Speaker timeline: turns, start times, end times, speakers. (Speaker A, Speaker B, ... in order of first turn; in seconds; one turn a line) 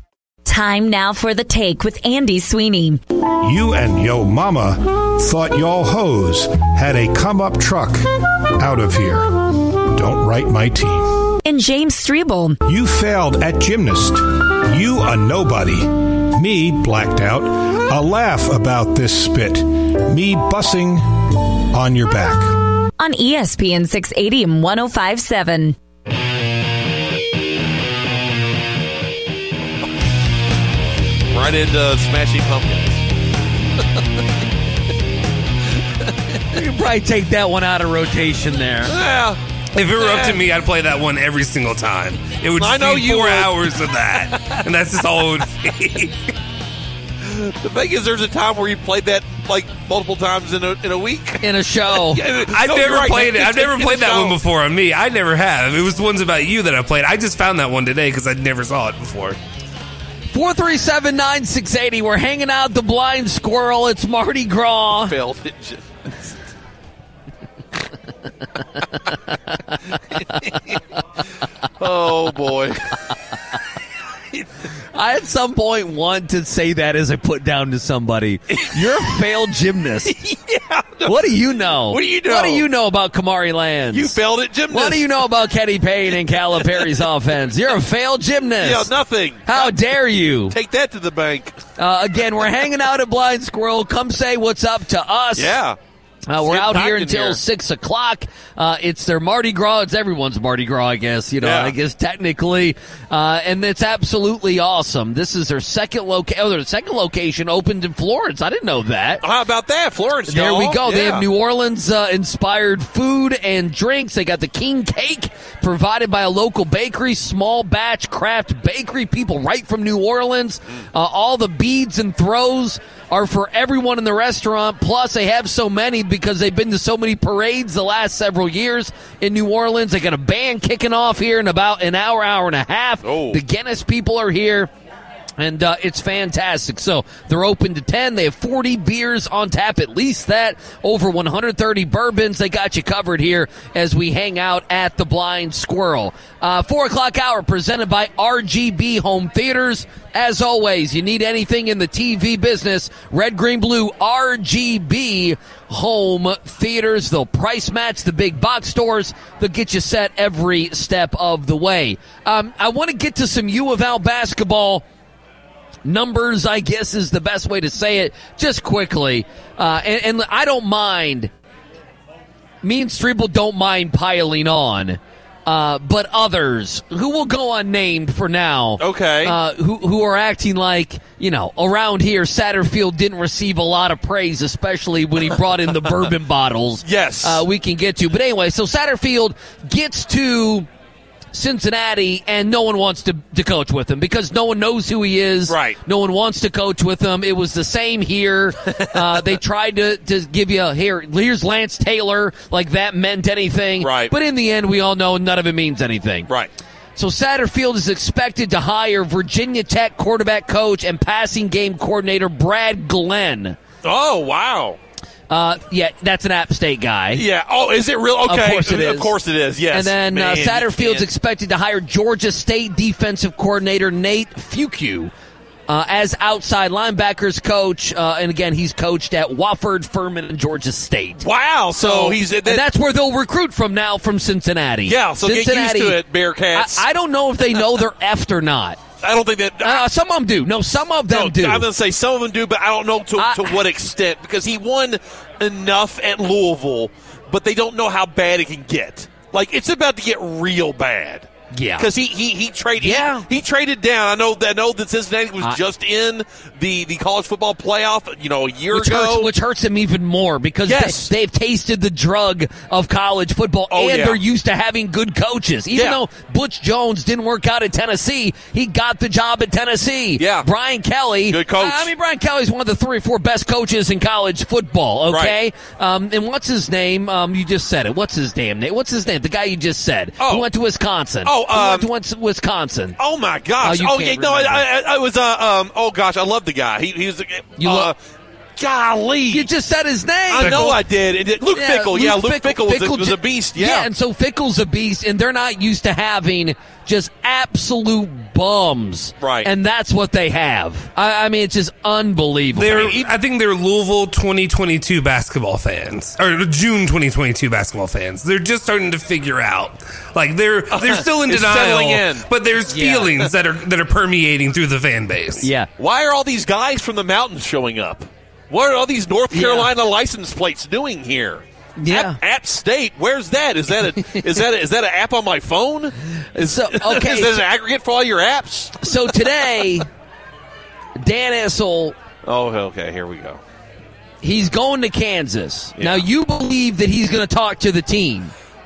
Speaker A: 0.5-3.0
Speaker B: 3.2-8.0
Speaker B: 8.6-11.3
Speaker A: 11.4-12.6
Speaker B: 12.7-22.6
Speaker A: 23.0-25.8
Speaker C: 31.3-33.0
Speaker D: 36.5-39.0
Speaker C: 38.9-39.4
Speaker E: 39.8-46.2
Speaker C: 40.0-40.5
Speaker C: 42.6-43.5
Speaker C: 44.1-44.6
Speaker C: 47.2-54.4
Speaker D: 51.4-52.2
Speaker E: 52.5-59.4
Speaker D: 60.3-65.2
Speaker C: 65.0-66.3
Speaker C: 71.8-72.9
Speaker D: 74.9-80.2
Speaker C: 80.1-82.7
Speaker D: 81.0-84.2
Speaker C: 83.9-85.2
Speaker D: 84.7-88.9
Speaker C: 86.5-87.0
Speaker C: 88.6-89.8
Speaker D: 89.5-90.5
Speaker C: 90.5-91.6
Speaker D: 91.8-95.6
Speaker C: 95.4-95.8
Speaker D: 96.3-109.2
Speaker C: 96.4-97.4
Speaker C: 101.4-101.7
Speaker C: 109.2-111.3
Speaker D: 110.3-134.7
Speaker C: 133.0-133.4
Speaker D: 135.4-164.8
Speaker D: 165.8-171.3
Speaker D: 172.6-190.7
Speaker C: 178.8-179.4
Speaker C: 186.8-187.4
Speaker D: 191.3-206.3
Speaker C: 195.5-195.8
Speaker C: 203.8-204.1
Speaker D: 207.0-213.6
Speaker C: 213.8-214.8
Speaker D: 215.3-217.2
Speaker C: 217.1-221.1
Speaker D: 218.3-219.1
Speaker D: 219.7-225.1
Speaker D: 225.7-231.2
Speaker C: 231.2-232.7
Speaker D: 231.8-236.0
Speaker C: 234.9-236.8
Speaker D: 236.6-238.8
Speaker C: 239.0-239.9
Speaker D: 239.6-241.7
Speaker C: 241.1-259.3
Speaker D: 243.2-243.6
Speaker D: 251.5-251.9
Speaker D: 252.8-253.2
Speaker D: 258.7-283.0
Speaker C: 260.7-261.1
Speaker C: 263.7-264.2
Speaker C: 265.7-266.0
Speaker C: 270.2-270.5
Speaker C: 271.3-271.9
Speaker C: 275.1-275.4
Speaker C: 280.2-280.5
Speaker C: 281.2-281.9
Speaker C: 283.0-288.0
Speaker D: 283.6-284.6
Speaker D: 287.6-287.9
Speaker C: 288.6-289.5
Speaker D: 289.3-290.8
Speaker C: 290.3-293.9
Speaker E: 290.4-290.7
Speaker D: 291.5-303.0
Speaker C: 299.2-299.5
Speaker E: 302.6-315.5
Speaker C: 302.8-303.1
Speaker C: 310.7-312.3
Speaker D: 312.7-313.1
Speaker D: 315.4-315.7
Speaker C: 315.8-329.6
Speaker D: 319.3-319.7
Speaker D: 321.8-322.2
Speaker D: 326.4-327.4
Speaker D: 328.8-329.9
Speaker D: 331.0-332.0
Speaker C: 332.2-333.4
Speaker D: 334.2-338.3
Speaker C: 335.8-336.1